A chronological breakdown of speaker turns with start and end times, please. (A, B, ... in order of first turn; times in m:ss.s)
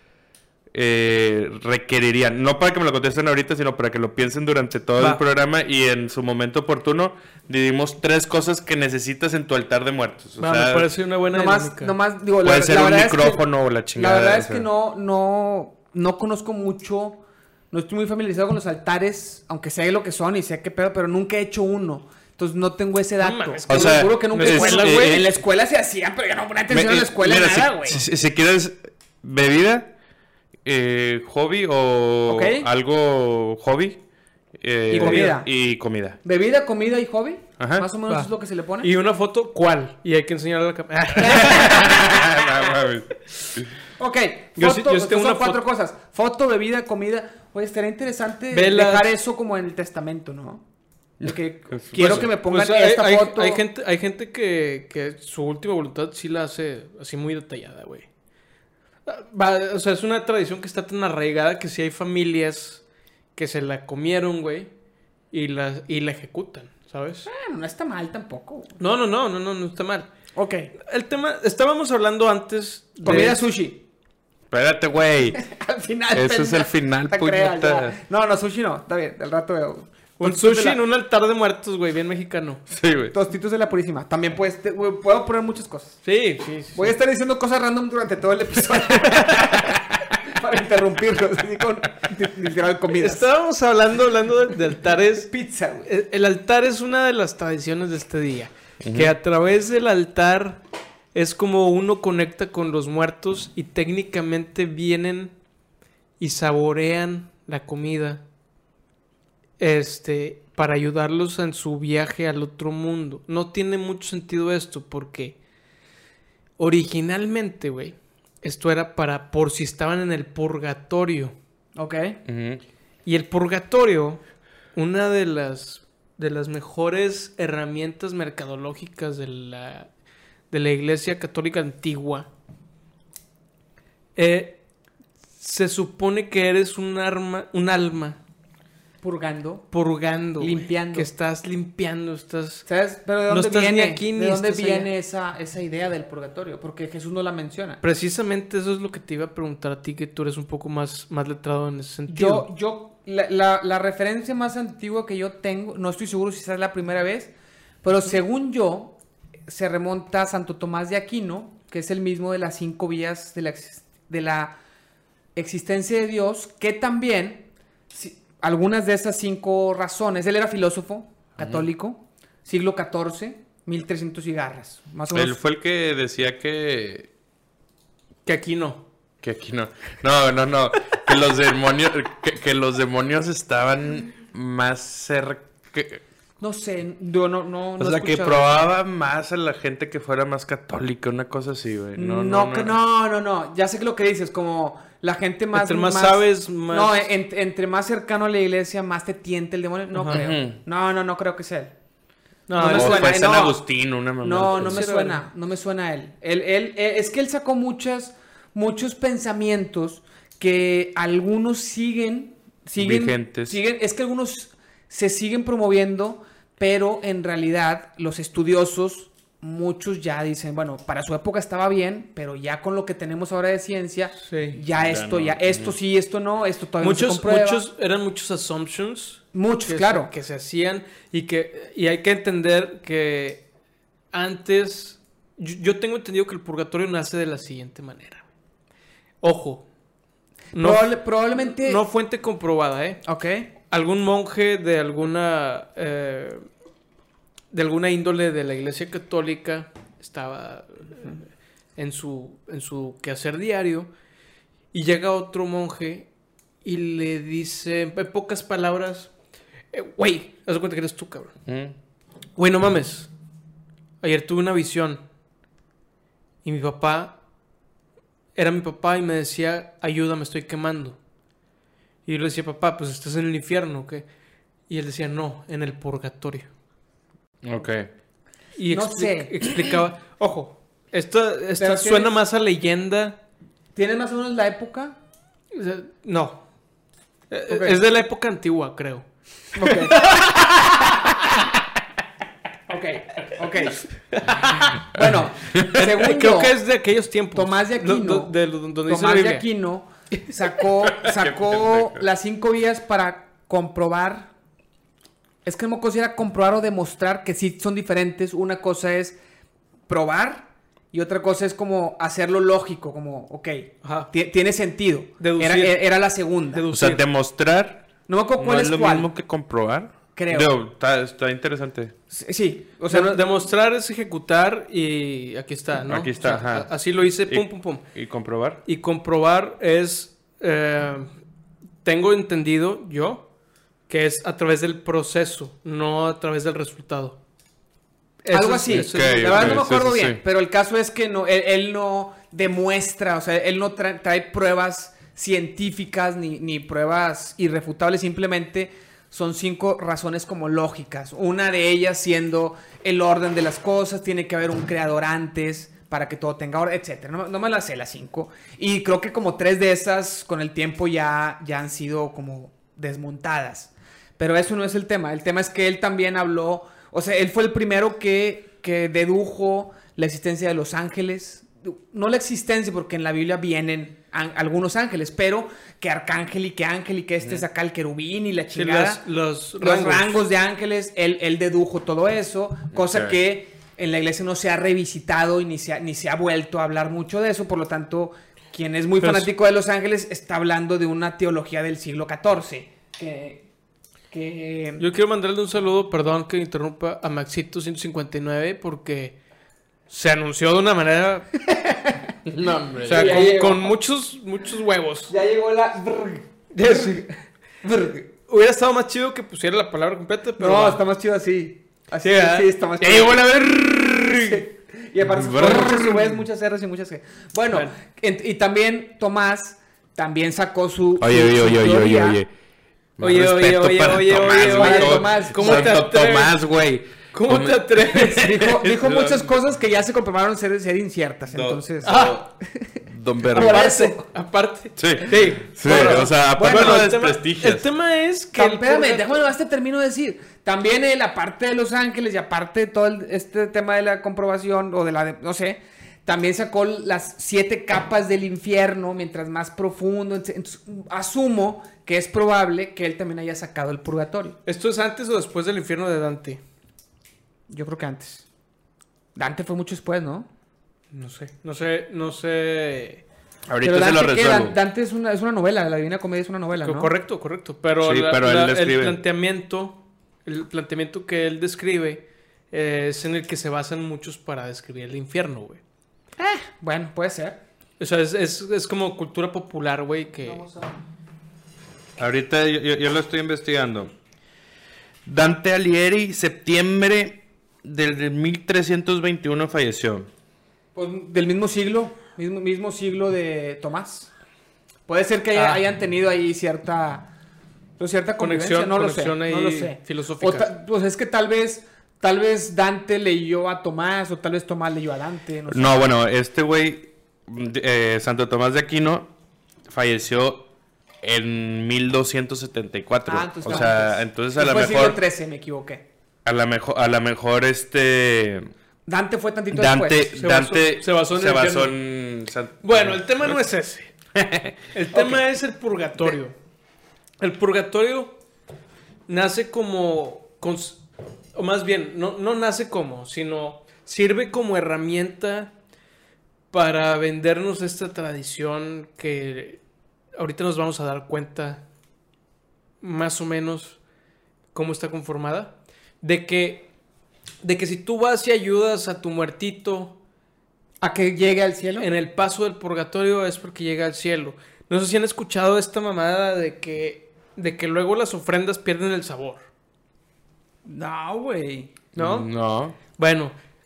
0:00.7-0:10.9 A
0:10.4-0:12.0 B
0:11.3-0:28.0 C
0:12.4-0:14.7 A
0:23.2-0:25.2 B
0:23.7-0:25.3 A
0:26.7-0:29.9 A
0:30.6-0:34.0 A
0:32.3-0:32.7 C
0:34.6-0:36.2 A
0:34.9-0:35.5 C
0:35.0-0:35.4 B
0:36.2-0:38.9 C
0:37.6-0:37.9 A
0:38.8-0:42.1 B
0:41.2-0:42.6 C
0:41.4-0:43.7 A
0:44.0-0:50.6 C
0:44.6-0:45.6 B
0:48.5-0:49.1 B
0:51.2-0:53.6 C
0:51.2-0:52.3 A
0:51.9-0:58.1 B
0:59.1-1:02.8 B
1:03.4-1:04.7 B
1:05.3-1:07.3 B
1:07.3-1:08.8 C
1:08.8-1:10.1 B
1:10.3-1:10.7 C
1:10.8-1:13.5 B
1:13.0-1:13.8 C
1:13.1-1:13.4 A
1:14.5-1:15.4 A
1:15.4-1:20.8 C
1:16.1-1:18.0 A
1:20.2-1:22.6 B
1:22.7-1:23.2 A
1:23.1-1:26.0 C
1:26.0-1:26.9 B
1:26.8-1:33.3 C
1:29.2-1:29.6 B
1:32.9-1:35.3 B
1:35.3-1:35.9 C
1:35.8-1:40.6 B
1:38.8-1:39.1 A
1:41.1-1:45.4 B
1:46.2-1:48.2 B
1:49.6-1:55.4 B
1:56.6-2:01.4 B
2:01.8-2:02.2 C
2:02.3-2:02.6 A
2:03.1-2:04.2 B
2:04.7-2:09.9 B
2:10.5-2:12.3 B
2:14.2-2:14.6 B
2:15.4-2:18.2 B
2:19.0-2:19.7 C
2:19.7-2:22.7 B
2:20.4-2:21.1 C
2:22.7-2:27.8 C
2:23.3-2:24.9 B
2:27.8-2:32.5 B
2:32.1-2:39.0 C
2:39.5-2:44.6 C
2:45.4-2:55.4 C
2:51.4-2:51.6 A
2:55.1-2:57.1 A
2:58.2-2:58.8 B
2:59.2-3:06.0 A
3:06.4-3:08.6 C
3:07.8-3:12.8 A
3:12.0-3:21.7 C
3:15.5-3:17.0 B
3:20.0-3:20.2 B
3:20.1-3:20.6 A
3:22.5-3:23.0 B
3:22.5-3:23.6 C
3:22.7-3:24.9 A
3:24.2-3:47.6 C
3:24.5-3:25.2 B
3:32.8-3:33.6 A
3:44.2-3:44.6 B
3:44.8-3:45.8 A
3:46.8-3:53.4 B
3:49.3-3:50.1 C
3:54.1-3:58.3 B
3:59.2-3:59.7 B
4:00.6-4:03.0 B
4:00.6-4:01.8 C
4:03.0-4:03.5 C
4:03.7-4:06.5 B
4:07.5-4:13.9 B
4:14.7-4:16.1 B
4:16.6-4:19.1 B
4:19.7-4:21.4 B
4:21.5-4:21.8 A
4:22.4-4:23.1 B
4:24.0-4:25.0 B
4:26.4-4:27.2 B
4:28.4-4:31.0 B
4:32.1-4:34.1 B
4:34.7-4:36.5 B
4:37.4-4:37.9 A
4:38.6-4:43.2 B
4:38.7-4:39.5 C
4:41.6-4:42.2 C
4:43.8-4:45.0 C
4:45.5-4:46.4 B
4:47.3-4:49.1 B
4:47.5-4:47.8 C
4:49.5-4:50.2 C
4:49.7-4:50.6 B
4:52.7-4:53.9 C
4:54.0-4:54.8 B
4:54.6-4:56.6 C
4:55.6-4:59.4 B
4:57.4-5:04.3 C
5:01.0-5:02.0 A
5:05.4-5:09.2 C
5:09.9-5:16.6 C
5:13.8-5:14.1 B
5:15.2-5:15.8 B
5:16.5-5:17.0 B
5:16.7-5:21.9 A
5:18.1-5:19.1 C
5:20.2-5:20.5 C
5:22.1-5:23.3 C
5:22.9-5:27.8 B
5:25.9-5:28.6 A
5:28.6-5:31.1 B
5:31.8-5:33.3 B
5:33.9-5:37.2 B
5:38.2-5:39.6 B
5:38.3-6:19.0 C
5:38.7-5:40.2 A
6:18.6-6:20.2 B
6:19.6-6:33.5 C
6:22.7-6:23.2 A
6:29.0-6:29.3 B
6:34.1-6:34.8 C
6:34.8-6:39.2 B
6:39.9-6:41.3 B
6:41.5-6:42.1 C
6:42.3-6:43.3 A
6:42.8-6:45.1 B
6:42.9-6:43.7 C
6:45.1-6:47.1 C
6:46.5-6:47.1 B
6:47.6-6:48.1 C
6:48.3-6:50.8 B
6:50.4-7:02.2 C
6:52.0-6:54.4 B
6:55.1-6:56.1 A
7:01.0-7:02.3 A
7:03.0-7:09.3 A
7:03.0-7:06.4 B
7:04.5-7:05.8 C
7:07.1-7:08.5 B
7:07.9-7:12.6 C
7:11.3-7:12.3 A
7:11.8-7:12.2 B
7:12.8-7:13.6 A
7:13.3-7:14.0 C
7:13.3-7:19.2 B
7:14.8-7:17.6 A
7:15.6-7:16.9 C
7:18.3-7:34.4 C
7:34.5-7:36.4 B
7:37.5-7:38.3 C
7:39.2-7:40.3 C
7:40.9-7:43.0 B
7:43.5-7:44.6 A
7:43.6-7:46.9 C
7:46.6-7:55.6 B
7:47.8-7:49.0 A
7:56.2-7:57.4 C
7:57.8-8:00.5 B
8:00.2-8:00.7 C
8:02.0-8:03.9 A
8:05.0-8:10.1 A
8:10.8-8:14.1 C
8:14.9-8:17.1 C
8:15.3-8:15.6 B
8:17.8-8:25.9 C
8:18.2-8:20.5 B
8:25.5-8:29.1 A
8:29.7-8:30.5 A
8:31.0-8:35.0 A
8:33.1-8:35.8 C
8:36.2-8:38.5 A
8:38.9-8:40.0 C
8:39.5-8:43.0 A
8:40.1-8:41.8 B
8:42.6-8:43.9 B
8:44.2-8:44.6 A
8:44.7-8:46.4 B
8:44.9-8:45.2 C
8:47.2-8:48.2 B
8:49.1-8:55.5 B
8:56.5-8:59.6 B
9:00.2-9:01.6 B
9:02.8-9:03.8 B
9:04.5-9:06.7 B
9:07.4-9:10.0 B
9:10.8-9:11.9 C
9:11.8-9:19.5 B
9:20.6-9:21.7 C
9:22.0-9:22.3 B
9:22.0-9:22.8 A
9:23.0-9:23.4 B